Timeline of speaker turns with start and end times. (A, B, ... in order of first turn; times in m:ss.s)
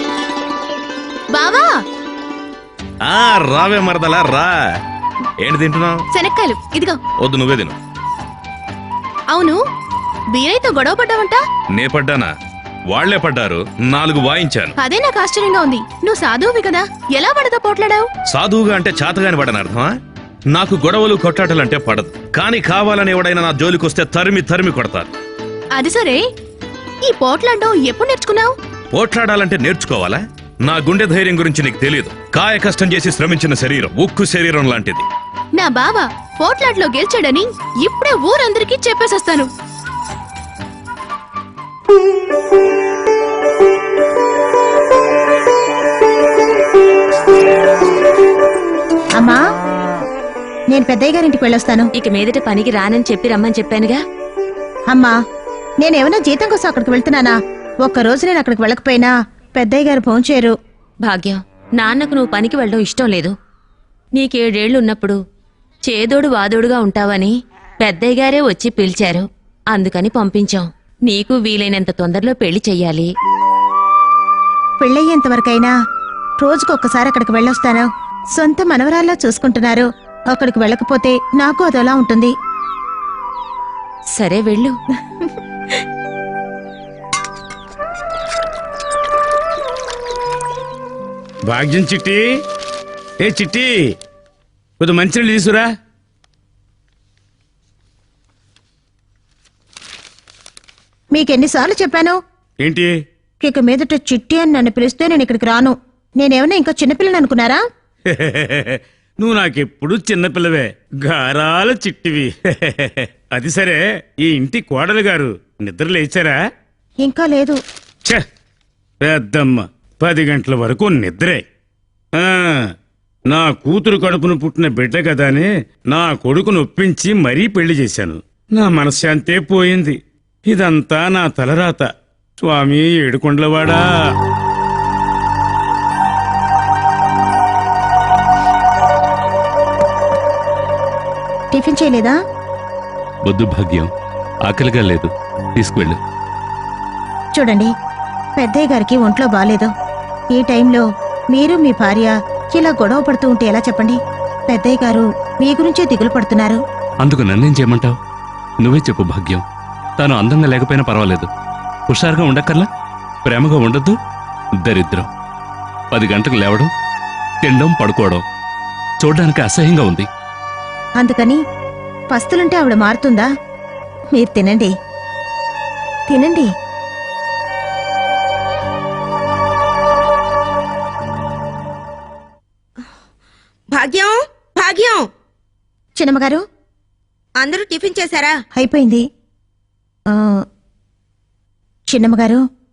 0:01.3-0:01.7 A
0:03.0-0:04.6 B
0:05.4-0:06.0 B
0:06.1-0:07.0 A
0:07.2-0:07.8 B
0:09.3-0:09.6 A
0:10.3-0:11.4 A
0:11.7-0:12.3 B
0:12.9-0:14.7 B
0:14.8-0:18.1 A
0:18.3-0:19.9 B
0:20.5-0:25.1 B
0:25.7-0:26.2 A
0:27.0-0:28.5 A
0:28.9-0:35.0 B
0:35.6-0:39.5 A
0:50.7-0:51.9 C
0:51.9-0:54.0 D
0:55.8-1:00.5 C
1:01.0-1:03.3 D
1:04.1-1:05.2 D
1:05.8-1:13.1 D
1:14.8-1:15.7 C
1:16.4-1:22.3 C
1:24.1-1:24.8 D
1:31.5-1:32.2 E
1:33.2-1:33.9 E
1:34.8-1:35.7 E
1:41.1-1:42.2 C
1:42.6-1:42.9 E
1:43.4-1:47.6 C
1:48.1-1:56.4 E
1:57.0-1:57.6 C
1:59.0-2:01.4 E
2:02.2-2:02.7 E
2:03.3-2:13.9 E
2:21.5-2:22.1 C
2:23.2-2:23.9 F
2:24.4-2:26.0 F
2:27.3-2:27.7 C
2:28.4-2:29.7 C
2:30.3-2:36.6 C
2:37.0-2:38.0 F
2:38.6-2:39.4 F
2:40.0-2:41.3 F
2:41.9-2:42.7 F
2:43.2-2:44.0 F
2:44.6-2:45.1 F
2:45.9-2:46.7 F
2:47.4-2:48.2 F
2:49.0-2:50.1 F
2:51.0-2:51.4 C
2:52.1-2:53.3 C
2:54.1-2:54.7 C
2:56.1-2:56.5 C
3:03.7-3:05.1 G
3:06.0-3:06.4 C
3:07.4-3:08.4 G
3:08.5-3:09.0 C
3:10.1-3:10.4 C
3:11.9-3:12.4 C